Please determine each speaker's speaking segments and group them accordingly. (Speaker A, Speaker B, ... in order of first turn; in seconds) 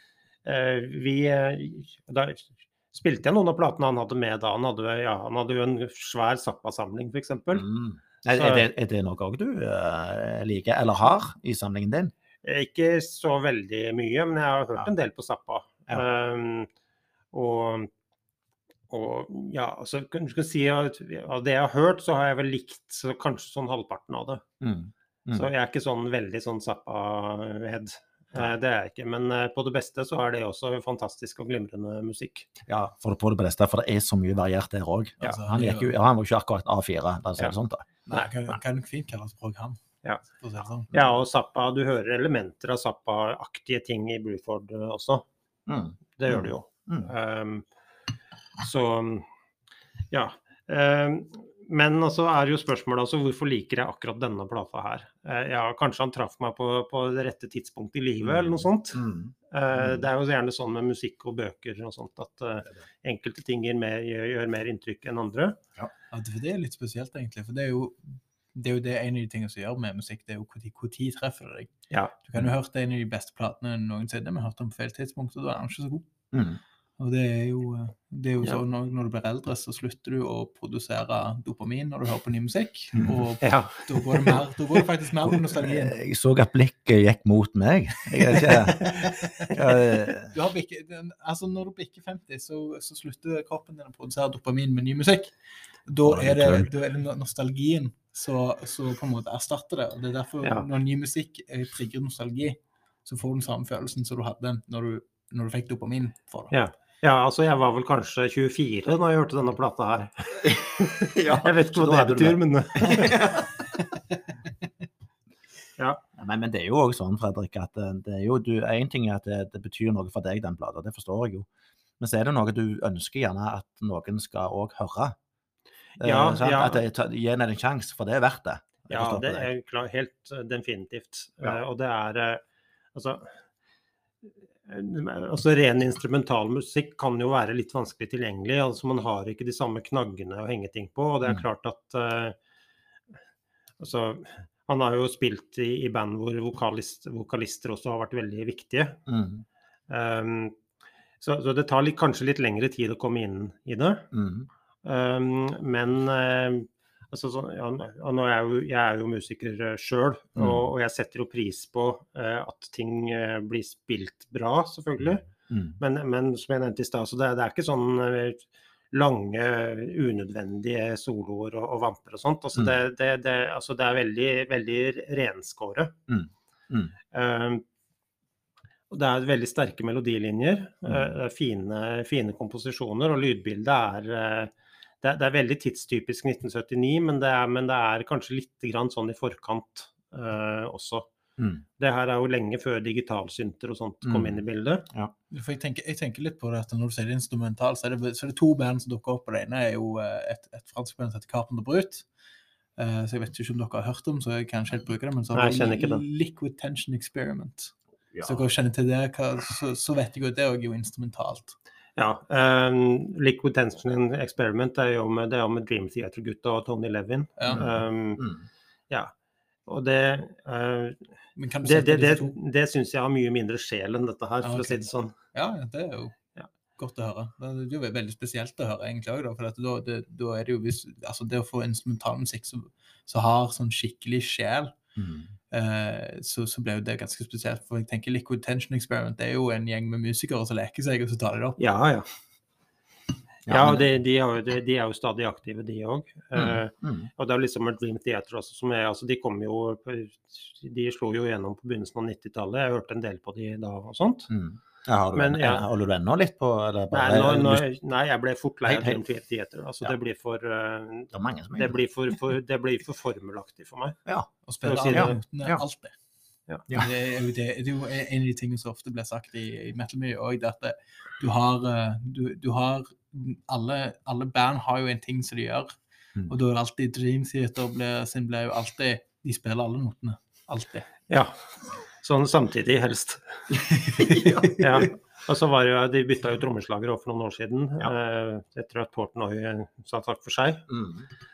Speaker A: 0.4-7.7, 8.3-8.7, 12.4-16.7, 17.3-17.9, 18.9-24.4, 25.3-32.5, 40.9-45.2, 46.1-47.6, 48.6-49.3, 50.1-65.6, 83.4-84.4, 100.4-100.7, 106.5-113.2, 126.0-126.8, 128.9-132.4, 132.9-133.4, 134.7-142.4, 143.8-149.0, 149.9-150.5, 151.2-154.1, 154.8-175.9, 177.1-177.6, 178.9-191.1, 191.8-194.9, 205.3-206.0, 212.0-218.2, 219.7-221.1, 221.6-225.2, 241.6-242.1, 243.5-254.3, 255.1-255.6, 256.9-264.0, 264.6-265.2, 281.1-281.4, 282.0-283.4, 284.6-290.6
Speaker B: 7.5-12.1, 24.6-25.5, 32.7-38.6, 45.7-47.1, 58.2-60.1, 76.3-76.6, 83.0-83.2, 85.3-90.3, 96.0-96.7, 110.4-113.7, 116.2-121.5, 122.0-125.2, 126.0-129.5, 149.1-149.4, 154.1-154.5, 160.4-160.6, 165.5-165.8, 176.1-176.9, 191.4-191.6, 194.0-194.4, 208.1-208.4, 217.5-218.4, 234.9-235.3, 243.5-243.8, 246.3-247.1, 254.3-257.6, 258.6-259.0, 261.1-261.8, 264.9-265.6, 283.5-284.8, 290.7-291.1
Speaker C: 35.2-35.9, 38.1-39.8, 40.3-40.9, 66.1-71.7, 72.2-76.1, 77.0-86.0, 89.0-89.5, 90.3-95.3, 95.9-106.5, 195.3-202.0, 202.8-211.5, 217.4-217.6, 221.4-222.4, 224.4-226.2, 226.8-234.7, 235.5-241.6, 264.5-265.9, 266.7-275.7, 276.3-280.9